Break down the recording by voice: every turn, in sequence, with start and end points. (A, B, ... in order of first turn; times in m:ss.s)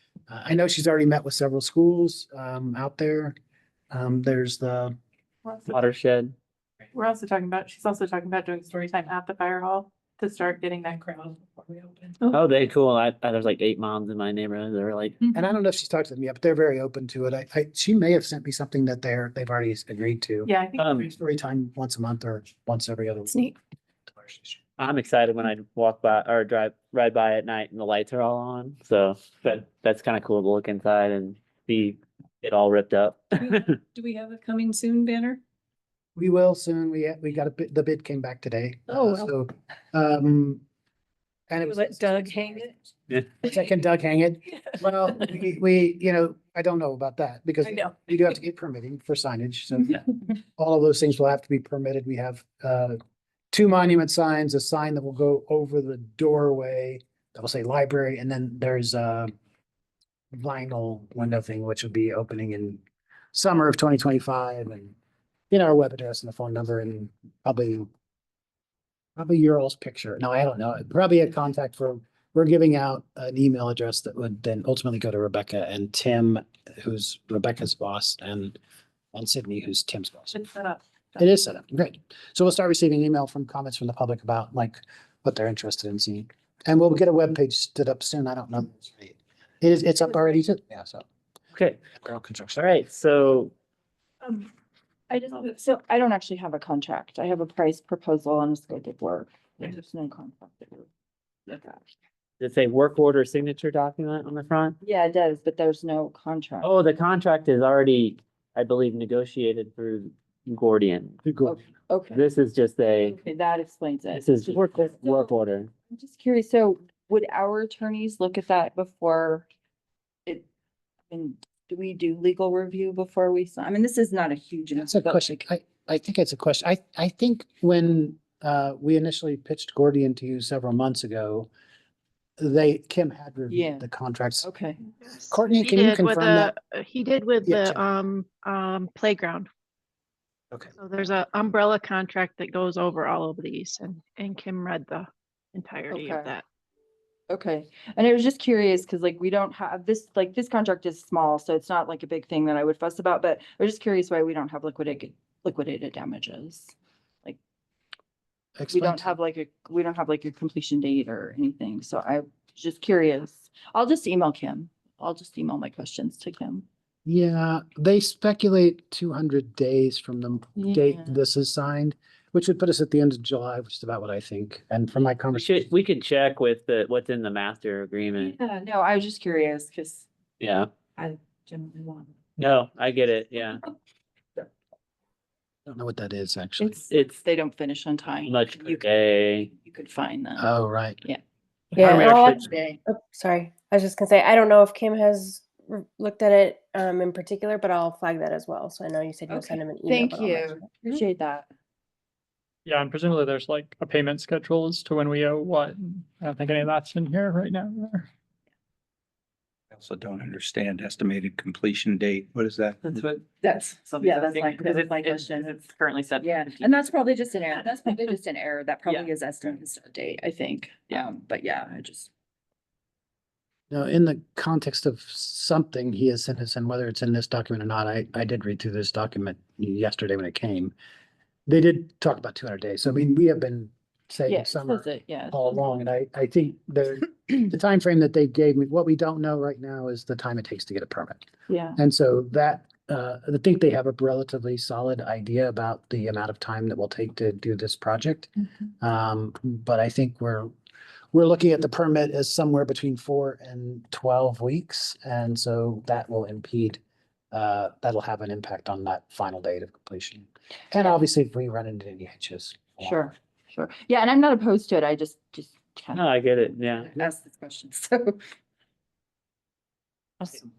0:00.3-0:03.4 A
0:03.9-0:05.0 A
0:05.7-0:06.3 B
0:06.9-0:12.4 C
0:12.3-0:15.2 B
0:15.3-0:23.5 A
0:20.4-0:21.1 C
0:20.8-0:21.1 B
0:24.2-0:24.6 A
0:24.8-0:33.7 B
0:34.0-0:35.3 D
0:36.2-0:40.6 A
0:38.9-0:39.3 D
0:41.5-0:42.7 A
0:41.6-0:42.7 D
0:43.4-0:50.0 A
0:50.5-0:53.0 A
0:53.5-0:59.3 A
1:00.3-1:02.8 A
1:03.3-1:05.0 A
1:05.5-1:07.9 A
1:09.2-1:18.6 A
1:19.1-1:20.4 A
1:21.2-1:31.0 A
1:31.5-1:31.8 B
1:32.0-1:32.6 A
1:32.6-1:33.5 B
1:34.2-1:34.5 E
1:35.1-1:40.9 E
1:41.5-1:41.8 E
1:42.4-1:44.8 B
1:44.8-1:46.7 E
1:46.6-1:51.2 B
1:51.2-1:51.6 A
1:51.4-1:52.2 E
1:52.1-1:53.2 B
1:53.0-1:55.3 E
1:54.1-1:55.7 B
1:55.9-1:59.4 E
2:01.1-2:05.4 E
2:04.8-2:11.5 A
2:12.4-2:14.5 A
2:13.5-2:13.8 E
2:14.4-2:14.8 E
2:15.1-2:19.5 F
2:15.3-2:16.5 A
2:17.4-2:17.8 A
2:20.8-2:26.4 F
2:25.9-2:26.4 E
2:27.3-2:36.7 E
2:38.6-2:39.1 A
2:38.7-2:46.6 E
2:47.0-2:55.7 A
2:50.6-2:51.2 E
2:55.3-2:58.3 B
2:58.2-3:00.0 E
3:00.4-3:00.7 B
3:01.0-3:02.1 E
3:02.4-3:03.6 B
3:05.6-3:06.8 A
3:06.6-3:08.9 E
3:06.9-3:07.2 B
3:08.2-3:09.5 B
3:09.4-3:10.5 E
3:10.4-3:11.0 A
3:11.8-3:12.0 G
3:11.8-3:20.7 H
3:11.8-3:12.4 B
3:11.9-3:12.8 E
3:19.3-3:21.5 E
3:22.6-3:28.1 G
3:29.7-3:33.1 I
3:33.4-3:35.6 E
3:34.0-3:34.7 B
3:34.0-3:35.4 D
3:35.6-3:36.2 B
3:36.1-3:36.5 D
3:36.2-3:42.1 E
3:43.7-3:50.7 A
3:51.5-4:01.2 A
3:54.3-3:55.5 E
4:01.5-4:01.8 E
4:01.8-4:08.3 A
4:08.8-4:10.5 A
4:11.1-4:16.8 A
4:17.3-4:23.0 A
4:22.8-4:28.2 E
4:25.9-4:26.9 B